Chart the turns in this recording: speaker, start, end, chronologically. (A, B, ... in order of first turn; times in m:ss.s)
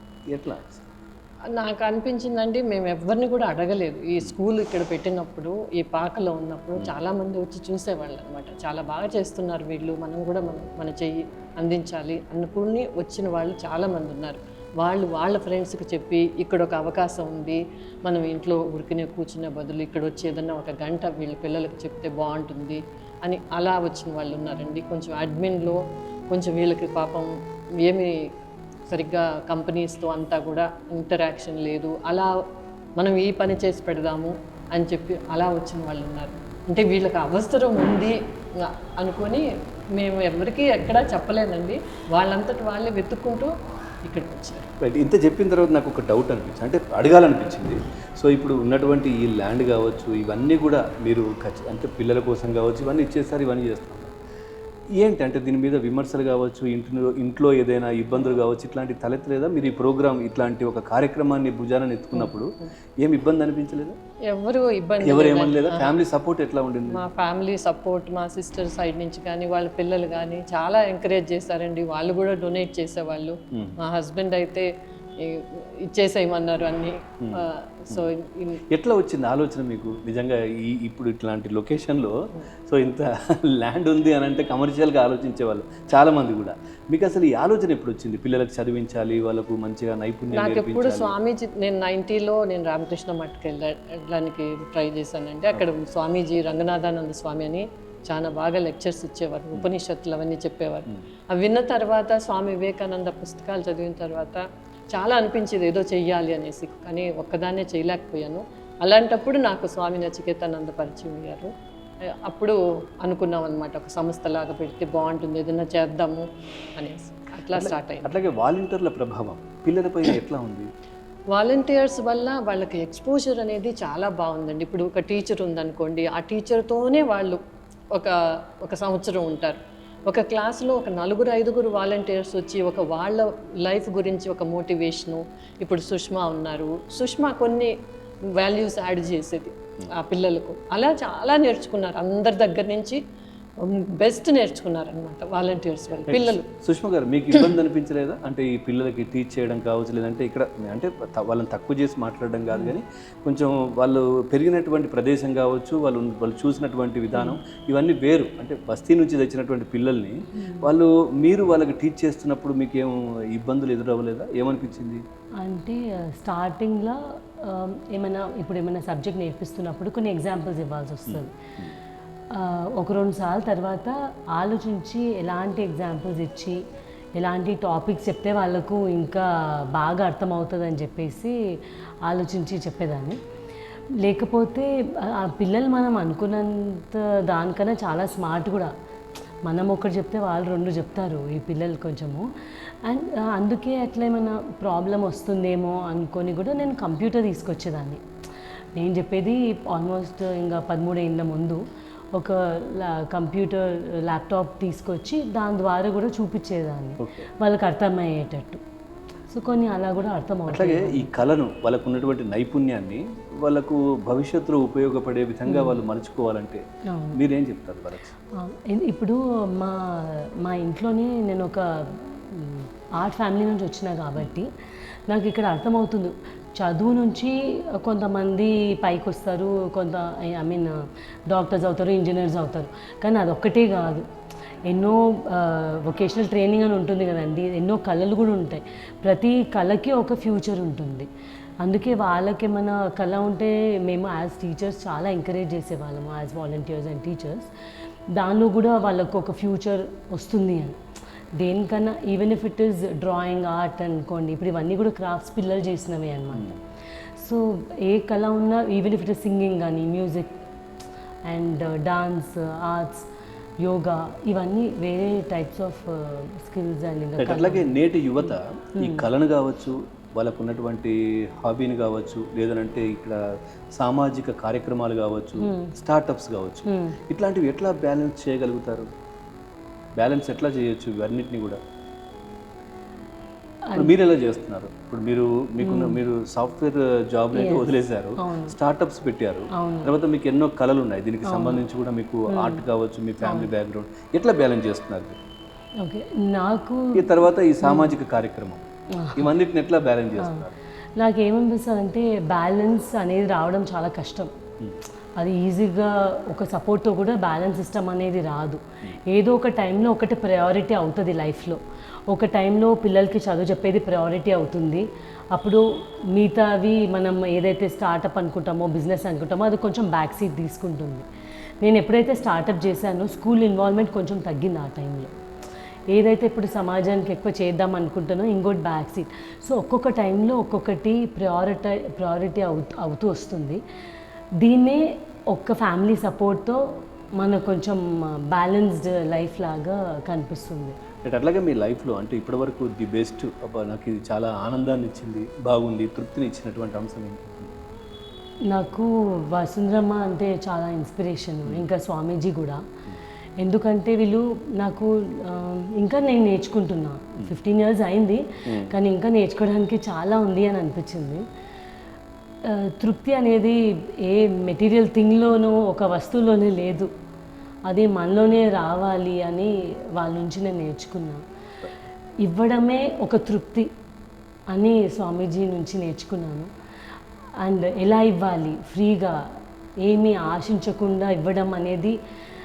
0:00.3-0:00.8 A
0:01.6-0:27.3 B
0:27.8-0:28.1 B
0:28.9-0:32.3 B
0:33.0-0:39.4 B
0:40.0-0:43.5 B
0:44.0-0:44.7 B
0:44.8-0:54.1 A
0:55.0-1:04.0 A
1:02.1-1:02.7 B
1:04.3-1:06.0 B
1:05.0-1:07.0 A
1:06.9-1:18.6 B
1:17.2-1:18.1 A
1:18.7-1:22.2 A
1:22.7-1:31.1 A
1:30.3-1:51.5 B
1:52.0-1:58.1 B
1:57.5-2:00.7 A
2:01.3-2:07.4 B
2:07.9-2:17.7 B
2:18.4-2:23.0 B
2:23.6-2:26.4 B
2:26.1-2:45.0 A
2:37.1-2:37.4 C
2:40.3-2:40.7 C
2:45.4-2:51.4 C
2:51.1-2:51.8 A
2:52.3-2:56.6 C
2:57.2-3:01.3 C
3:02.0-3:03.2 C
3:04.0-3:08.7 C
3:09.5-3:12.2 C
3:12.8-3:18.0 C
3:18.8-3:21.6 C
3:22.1-3:28.6 C
3:27.0-3:27.3 A
3:29.3-3:31.1 C
3:30.5-3:36.6 A
3:35.5-3:35.8 C
3:36.9-3:37.2 C
3:37.1-3:38.1 A
3:38.3-3:44.5 C
3:45.1-3:50.7 C
3:51.3-3:54.0 C
3:54.7-4:01.1 C
4:01.6-4:07.5 C
4:08.2-4:10.8 C
4:11.4-4:16.5 C
4:17.2-4:20.3 C
4:21.3-4:23.1 C
4:23.6-4:29.1 C
4:27.2-4:33.2 A
4:33.8-4:38.9 A
4:35.4-4:35.7 C
4:36.7-4:37.0 C
4:40.0-4:41.6 A
4:43.8-4:55.2 A
4:45.6-4:46.0 C
4:47.3-4:48.6 C
4:49.6-4:49.9 C
4:51.2-4:51.6 C
4:52.3-4:52.6 C
4:53.2-4:53.5 C
4:55.8-4:57.1 C
4:57.0-4:58.6 A
4:57.6-4:57.9 C
4:59.0-4:59.3 C
4:59.2-5:00.6 A
5:00.2-5:00.4 C
5:01.0-5:04.3 C
5:05.2-5:15.6 C
5:16.1-5:21.0 C
5:21.6-5:25.1 C
5:25.9-5:33.6 C
5:34.4-5:36.6 C
5:37.2-5:40.8 C
5:41.0-5:47.5 A
5:48.5-5:52.6 C
5:53.4-6:01.2 C
5:58.5-5:58.7 A
6:02.4-6:06.9 C
6:07.7-6:11.2 C
6:12.2-6:13.7 C
6:14.5-6:16.5 C
6:17.4-6:19.2 C
6:19.8-6:21.9 C